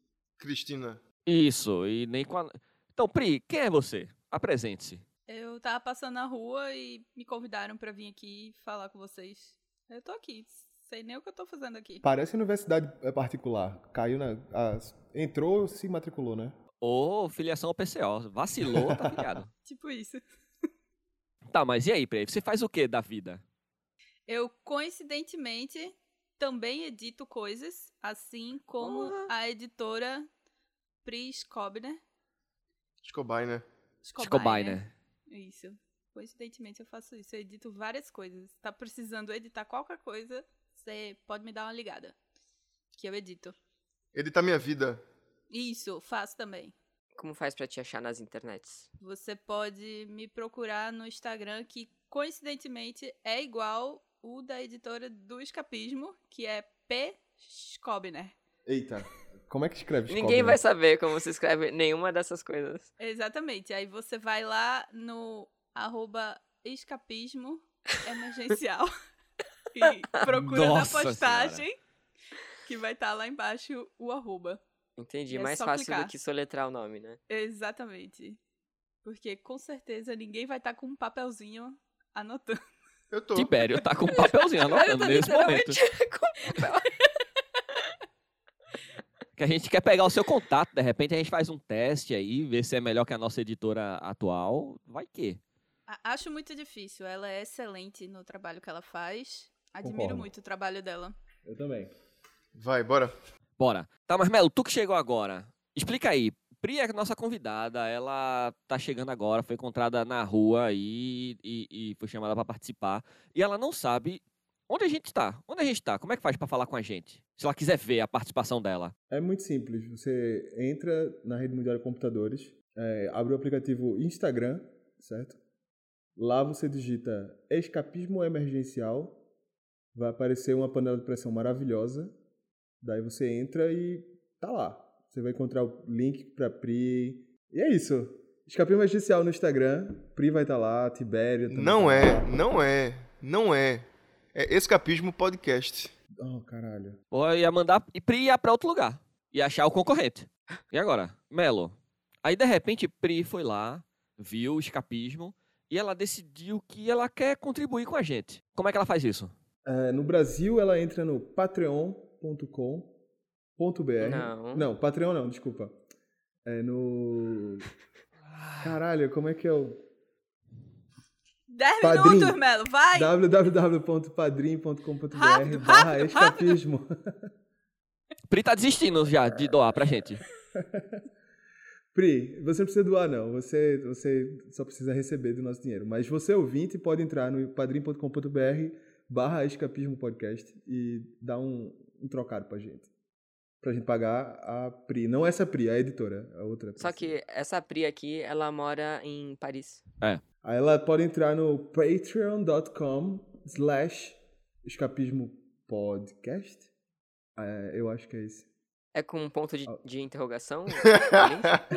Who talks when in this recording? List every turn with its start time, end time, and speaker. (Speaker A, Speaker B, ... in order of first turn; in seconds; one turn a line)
Speaker A: 0.4-1.0
Speaker B: 1.2-5.0
Speaker C: 5.3-12.0
Speaker D: 12.0-16.6
Speaker B: 16.8-19.5
Speaker D: 18.7-19.2
Speaker C: 19.6-20.2
Speaker B: 21.5-23.4
Speaker C: 24.3-30.3
Speaker B: 28.8-29.3
Speaker C: 31.0-32.0
Speaker A: 33.0-33.6
Speaker C: 34.0-42.2
Speaker B: 34.2-34.9
Speaker C: 42.9-43.5
Speaker A: 44.1-45.0
Speaker C: 45.5-46.7
Speaker E: 47.2-48.9
Speaker C: 49.0-58.4
Speaker D: 58.7-60.6
Speaker E: 60.1-62.9
Speaker C: 63.0-68.9
Speaker C: 69.7-71.8
Speaker B: 70.2-71.7
Speaker C: 72.7-74.6
Speaker E: 75.0-77.2
Speaker C: 75.3-76.1
Speaker C: 77.3-78.4
Speaker C: 79.0-82.6
Speaker A: 83.1-83.5
Speaker B: 83.3-85.8
Speaker E: 84.1-87.0
Speaker B: 89.3-95.4
Speaker C: 95.9-101.2
Speaker D: 99.8-100.3
Speaker D: 101.4-101.9
Speaker A: 102.5-103.1
Speaker B: 103.6-118.9
Speaker D: 119.1-125.4
Speaker D: 126.2-129.2
Speaker D: 129.9-132.2
Speaker D: 132.8-142.4
Speaker A: 141.5-145.9
Speaker D: 146.2-147.0
Speaker B: 147.1-159.3
Speaker D: 159.7-163.0
Speaker D: 163.6-165.8
Speaker E: 164.0-164.7
Speaker D: 166.4-167.7
Speaker B: 168.4-168.7
Speaker D: 168.6-169.8
Speaker C: 171.5-173.2
Speaker D: 171.8-177.3
Speaker C: 175.1-176.6
Speaker B: 178.3-180.2
Speaker D: 180.5-181.0
Speaker D: 181.9-192.9
Speaker D: 193.6-197.2
Speaker E: 196.8-199.8
Speaker D: 200.4-206.7
Speaker D: 207.3-208.5
Speaker E: 208.9-211.6